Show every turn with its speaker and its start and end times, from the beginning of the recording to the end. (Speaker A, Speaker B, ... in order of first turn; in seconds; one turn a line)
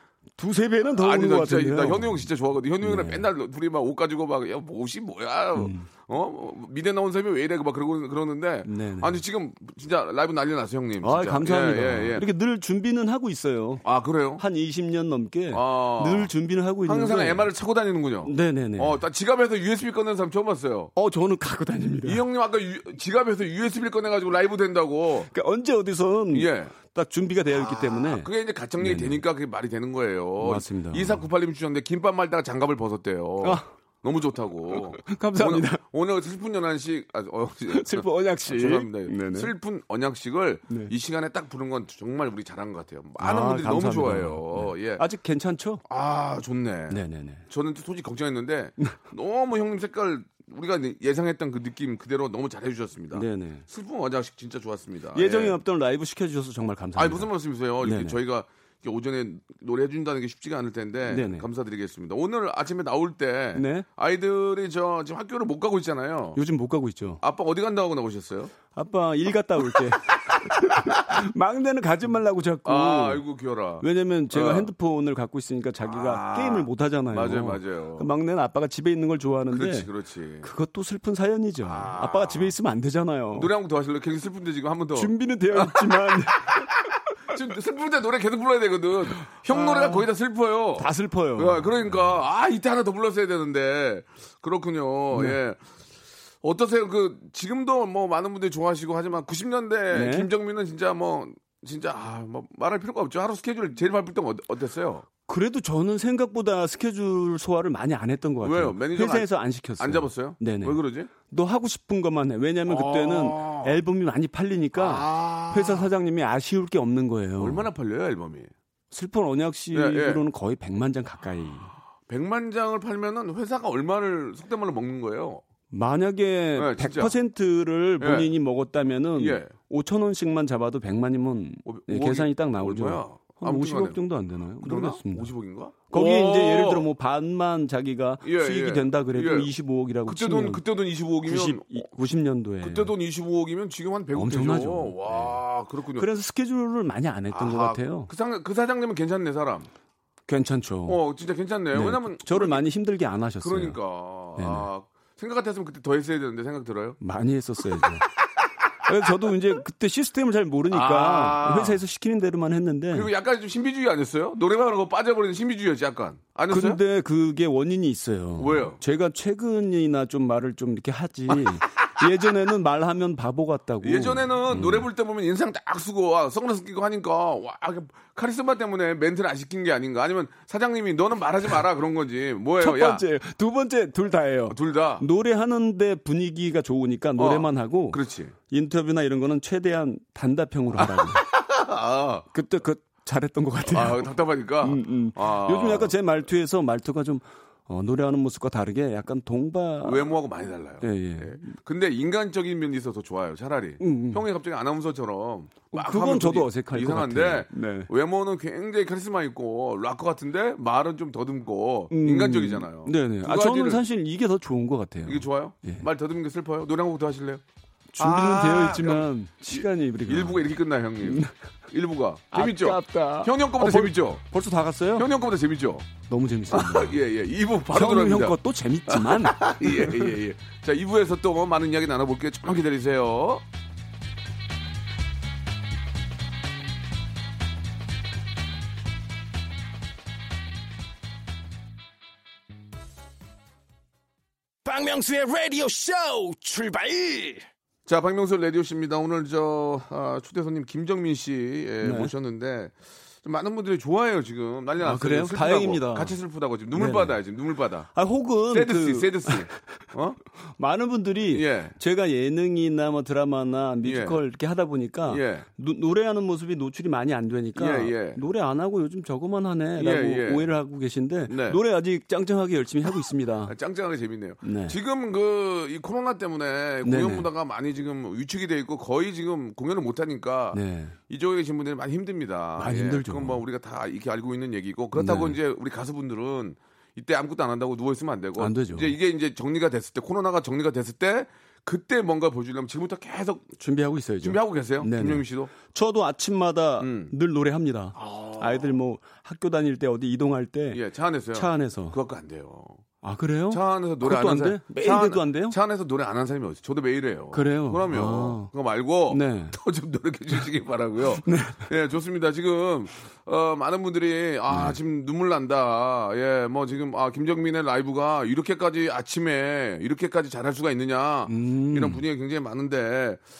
Speaker A: 0.4-2.2
Speaker B: 0.9-12.2
Speaker A: 2.8-3.3
Speaker A: 5.5-5.9
Speaker A: 8.6-9.2
Speaker A: 11.0-13.8
Speaker B: 13.8-14.4
Speaker A: 14.4-17.5
Speaker B: 15.5-16.3
Speaker B: 16.9-20.9
Speaker A: 18.2-19.0
Speaker A: 20.9-22.2
Speaker B: 22.0-25.3
Speaker A: 25.3-28.3
Speaker B: 26.3-26.7
Speaker B: 27.5-45.0
Speaker A: 28.8-29.2
Speaker A: 30.4-31.2
Speaker A: 35.0-35.8
Speaker A: 37.7-39.5
Speaker A: 43.2-45.8
Speaker B: 45.9-55.6
Speaker A: 46.9-47.5
Speaker A: 53.1-53.6
Speaker A: 55.1-58.2
Speaker B: 56.9-66.4
Speaker A: 61.1-61.4
Speaker A: 63.5-63.9
Speaker A: 66.3-67.2
Speaker B: 67.2-68.5
Speaker A: 68.7-73.2
Speaker B: 72.6-74.7
Speaker A: 73.8-79.9
Speaker B: 75.8-78.1
Speaker B: 79.5-80.5
Speaker A: 80.4-83.5
Speaker B: 81.6-82.5
Speaker B: 83.3-86.7
Speaker A: 84.9-86.7
Speaker B: 87.3-95.6
Speaker A: 89.5-90.0
Speaker A: 90.8-91.7
Speaker B: 96.4-105.0
Speaker A: 99.9-100.3
Speaker A: 105.3-117.7
Speaker B: 108.4-111.1
Speaker B: 112.7-113.8
Speaker B: 114.7-115.9
Speaker B: 117.4-118.5
Speaker A: 118.9-121.7
Speaker B: 119.7-120.2
Speaker B: 122.1-125.4
Speaker A: 125.7-135.3
Speaker B: 126.5-127.2
Speaker B: 128.0-128.3
Speaker B: 129.1-129.5
Speaker B: 131.6-134.0
Speaker B: 134.6-136.9
Speaker A: 135.9-140.6
Speaker B: 138.2-139.5
Speaker B: 140.0-141.9
Speaker A: 141.2-142.9
Speaker B: 142.6-146.1
Speaker A: 144.1-145.4
Speaker A: 145.9-148.1
Speaker B: 147.3-149.7
Speaker A: 150.3-151.0
Speaker B: 150.8-152.7
Speaker A: 151.7-153.8
Speaker B: 153.4-157.0
Speaker A: 154.4-154.7
Speaker A: 157.0-158.1
Speaker A: 158.8-163.1
Speaker B: 160.7-161.8
Speaker B: 162.9-166.8
Speaker A: 166.5-174.9
Speaker B: 168.4-168.8
Speaker B: 173.8-183.0
Speaker A: 182.6-191.2
Speaker B: 184.5-185.1
Speaker B: 187.2-188.3
Speaker B: 190.8-192.3
Speaker A: 192.3-200.1
Speaker B: 193.6-195.9
Speaker B: 199.8-213.8
Speaker A: 200.8-201.5
Speaker A: 203.8-204.2
Speaker A: 205.7-207.9
Speaker A: 211.9-215.8
Speaker B: 215.0-217.4
Speaker A: 217.9-220.5
Speaker B: 218.0-224.2
Speaker A: 221.0-221.3
Speaker A: 222.3-225.1
Speaker B: 224.9-225.9
Speaker A: 226.1-227.0
Speaker B: 226.5-233.4
Speaker A: 227.7-229.9
Speaker C: 244.6-247.5
Speaker B: 247.8-257.9
Speaker A: 251.8-252.1
Speaker A: 254.8-256.1
Speaker A: 256.7-257.2
Speaker A: 257.9-259.5
Speaker B: 258.5-260.2
Speaker A: 260.6-273.5
Speaker B: 261.3-261.8
Speaker B: 263.8-264.2
Speaker B: 265.0-265.4
Speaker B: 267.5-268.2
Speaker B: 269.8-270.5
Speaker B: 271.3-271.6
Speaker B: 273.5-293.5
Speaker A: 274.4-274.8
Speaker A: 276.8-277.3
Speaker A: 280.5-280.9
Speaker A: 282.6-283.4
Speaker A: 284.9-285.4
Speaker A: 288.4-288.9
Speaker A: 293.6-300.8
Speaker B: 294.2-295.5
Speaker B: 296.8-297.1
Speaker B: 297.9-298.8
Speaker B: 300.7-302.8
Speaker A: 301.3-302.0
Speaker A: 303.0-305.6
Speaker B: 303.5-323.2
Speaker A: 307.3-308.5
Speaker A: 309.1-309.6
Speaker A: 311.2-311.7
Speaker A: 314.5-314.8
Speaker A: 321.3-322.0